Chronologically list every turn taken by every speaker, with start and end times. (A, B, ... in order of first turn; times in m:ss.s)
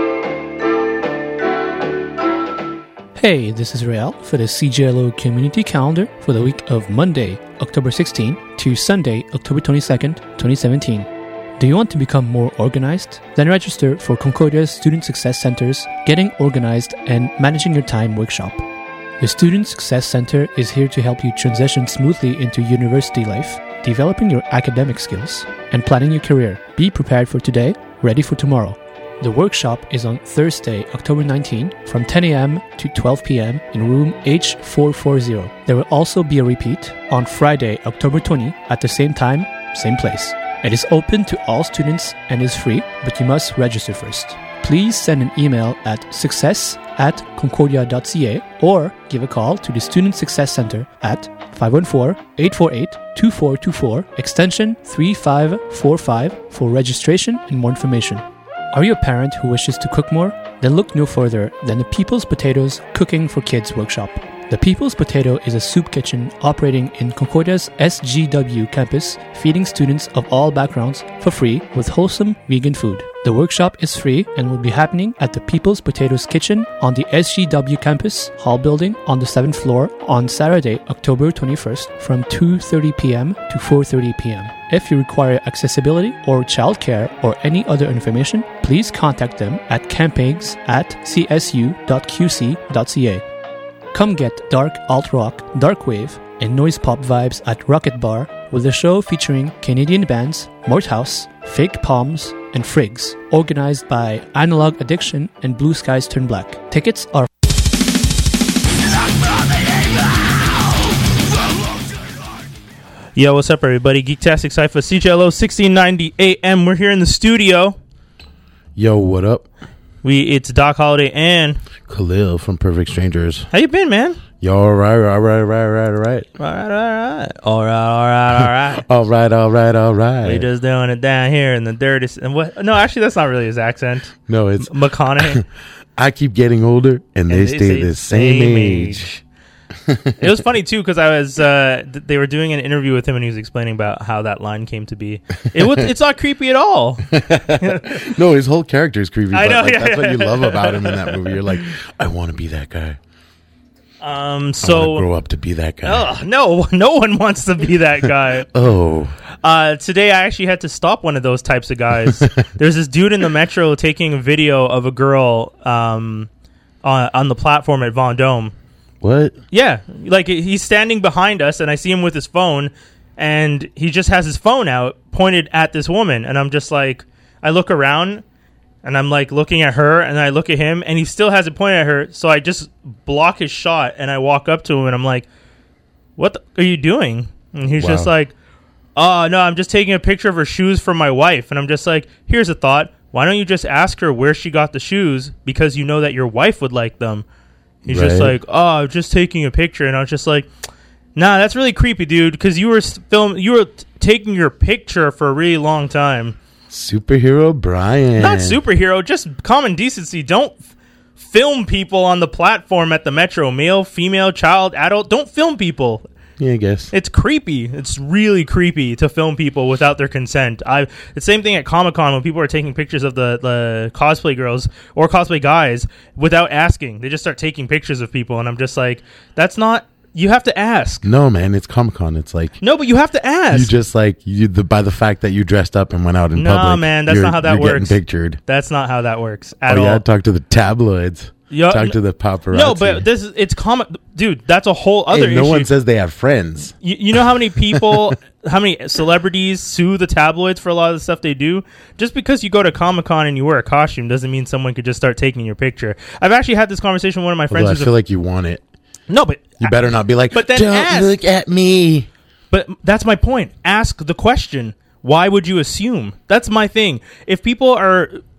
0:03.2-0:18.6 A
0:19.2-1:33.2 A
1:33.9-1:47.3 A
1:53.2-1:57.8 B
1:58.8-1:59.5 C
2:00.0-2:01.6 B
2:01.9-2:03.5 C
2:03.5-2:04.2 B
2:04.4-2:06.3 C
2:06.4-2:08.8 B
2:08.4-2:10.4 C
2:10.2-2:15.4 B
2:14.3-2:15.4 C
2:16.0-2:19.0 C
2:17.3-2:19.2 B
2:19.8-2:20.2 C
2:20.2-2:28.1 B
2:25.5-2:25.8 C
2:27.1-2:33.0 C
2:29.3-2:31.5 B
2:34.0-2:35.0 B
2:34.6-2:36.1 C
2:35.8-2:38.5 B
2:38.5-2:39.1 C
2:39.4-2:46.3 B
2:46.8-2:48.5 B
2:49.0-2:49.3 C
2:49.5-2:58.2 B
2:58.8-3:05.3 B
3:06.2-3:08.3 B
3:07.8-3:08.1 C
3:09.0-3:17.2 B
3:17.8-3:20.5 B
3:17.9-3:18.4 C
3:21.2-3:26.4 B
3:26.7-3:28.6 C
3:28.2-3:30.6 B
3:31.2-3:36.0 B
3:36.4-3:36.9 C
3:36.9-3:51.1 B
3:51.0-3:52.6 C
3:52.6-3:53.7 B
3:53.5-3:58.4 C
3:56.3-4:00.0 B
3:59.7-4:03.0 C
4:01.5-4:02.0 B
4:02.5-4:05.7 B
4:05.1-4:06.7 C
4:06.8-4:17.9 B
4:07.7-4:08.0 C
4:17.5-4:18.6 C
4:19.1-4:19.8 B
4:19.6-4:22.1 C
4:20.3-4:21.2 B
4:22.5-4:28.2 B